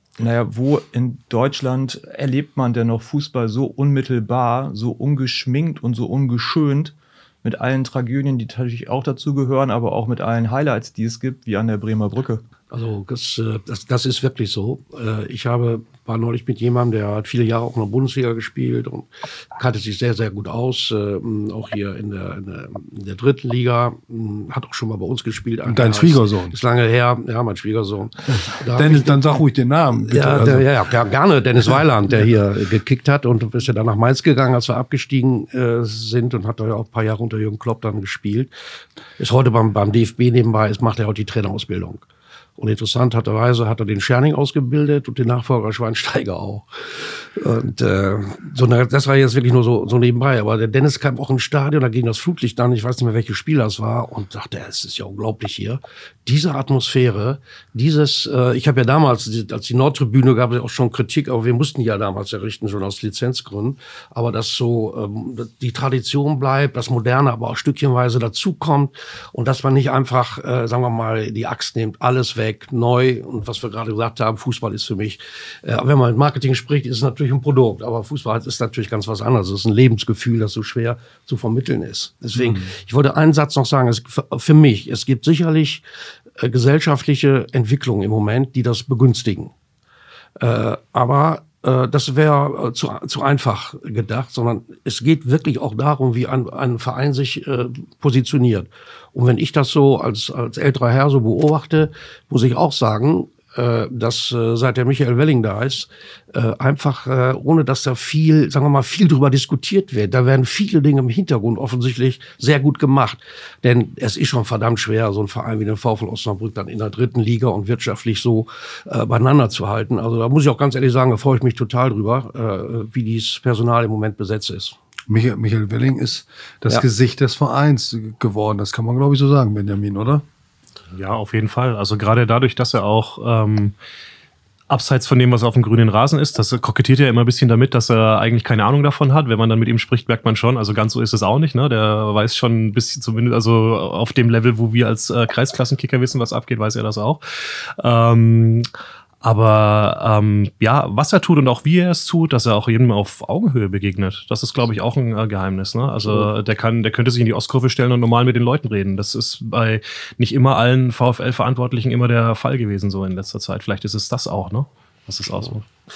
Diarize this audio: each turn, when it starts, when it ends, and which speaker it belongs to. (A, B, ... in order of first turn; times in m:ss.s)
0:00.2-0:12.4 A
0:12.7-0:29.2 B
0:25.6-0:26.6 C
0:28.7-0:30.7 C
0:30.0-0:38.5 B
0:39.2-0:42.1 B
0:42.6-1:25.8 B
1:26.4-1:29.5 B
1:30.4-2:04.8 B
2:05.1-2:10.2 C
2:10.9-2:13.8 D
2:14.7-2:27.2 D
2:27.8-2:28.7 D
2:29.2-2:45.7 D
2:36.0-2:36.3 B